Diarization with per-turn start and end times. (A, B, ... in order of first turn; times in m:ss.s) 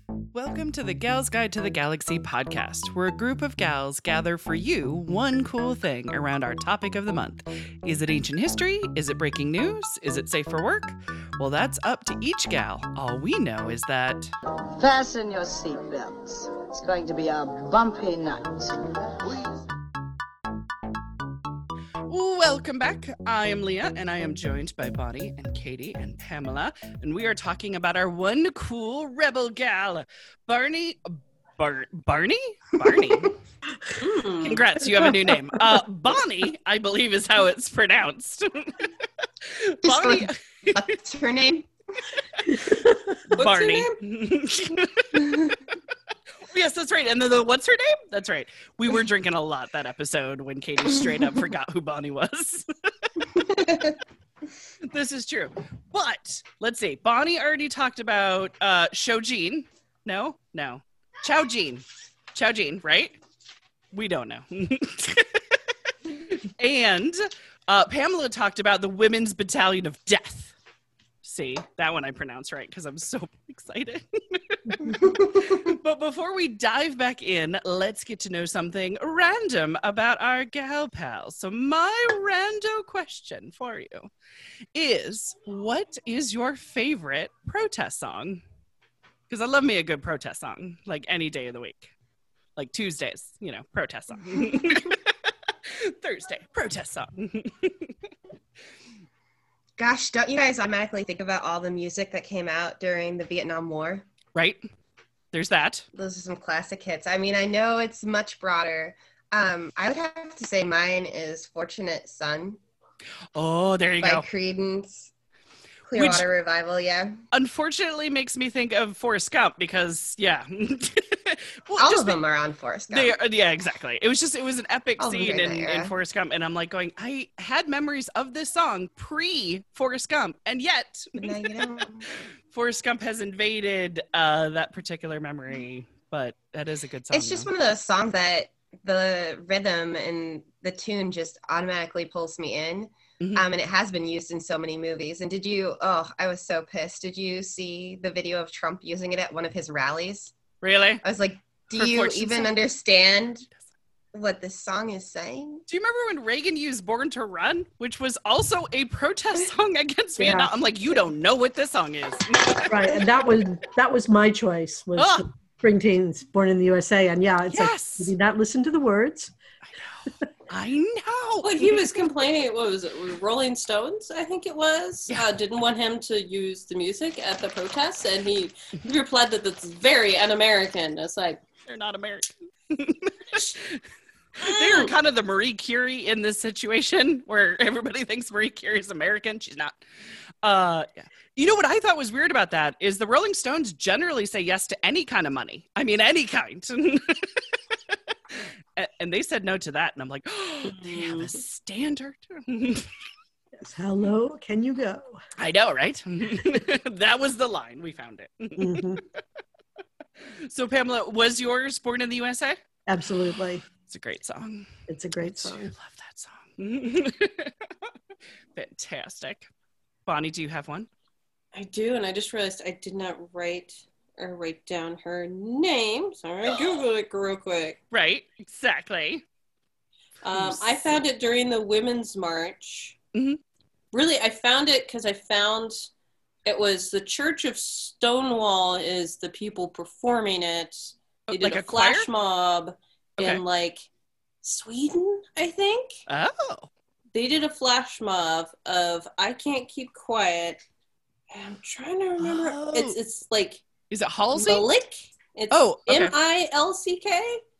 0:00.3-0:14.3 A
0:14.8-0:19.6 B
0:22.1-0:33.3 A
0:34.0-0:34.6 C
0:34.4-0:38.9 A
0:39.4-0:40.7 A
0:39.8-0:41.7 D
0:42.7-0:43.1 E
0:43.3-0:45.6 A
0:43.4-0:44.0 C
0:46.5-0:53.7 A
0:53.4-0:54.0 D
0:54.9-1:03.2 A
1:03.9-1:05.4 A
1:06.3-1:10.5 A
1:11.2-1:24.1 A
1:24.7-1:28.4 A
1:29.3-1:31.9 A
1:32.6-1:35.0 A
1:35.7-1:37.9 A
1:39.8-1:44.0 D
1:44.3-1:44.6 A
1:45.3-1:45.8 A
1:45.9-1:52.6 D
1:53.3-1:54.2 A
1:54.0-1:55.1 D
1:55.9-1:57.2 D
1:55.9-1:56.2 A
1:57.3-2:02.2 A
2:01.8-2:03.1 D
2:02.9-2:11.8 A
2:05.0-2:05.9 D
2:11.2-2:12.0 D
2:12.5-2:17.5 A
2:17.1-2:30.3 D
2:30.6-2:31.0 A
2:31.0-2:33.5 D
2:31.7-2:32.5 A
2:34.1-2:35.6 D
2:35.7-2:43.0 A
2:40.2-2:40.5 D
2:42.7-2:49.3 E
2:45.0-2:45.2 A
2:47.5-2:48.1 A
2:50.5-2:51.9 A
2:51.4-3:01.4 C
3:01.6-3:03.8 A
3:04.4-3:09.8 A
3:04.4-3:04.9 C
3:10.4-3:17.3 A
3:17.9-3:22.9 A
3:20.6-3:21.3 C
3:23.6-3:25.2 E
3:25.4-3:28.9 A
3:28.6-3:29.0 E
3:30.2-3:32.6 A
3:32.9-3:33.6 E
3:33.9-3:37.7 A
3:34.9-3:35.7 E
3:38.5-3:39.5 A
3:40.0-3:40.9 A
3:41.5-3:47.8 C
3:47.9-3:49.2 A
3:50.2-3:53.0 C
3:50.2-3:51.0 A
3:53.1-3:53.4 A
3:53.9-3:55.9 C
3:56.4-4:03.8 C
4:01.3-4:02.1 A
4:04.4-4:06.0 C
4:06.1-4:06.7 A
4:07.1-4:10.6 C
4:11.3-4:13.6 C
4:12.2-4:13.0 A
4:13.9-4:14.7 A
4:14.3-4:17.4 C
4:15.5-4:16.1 A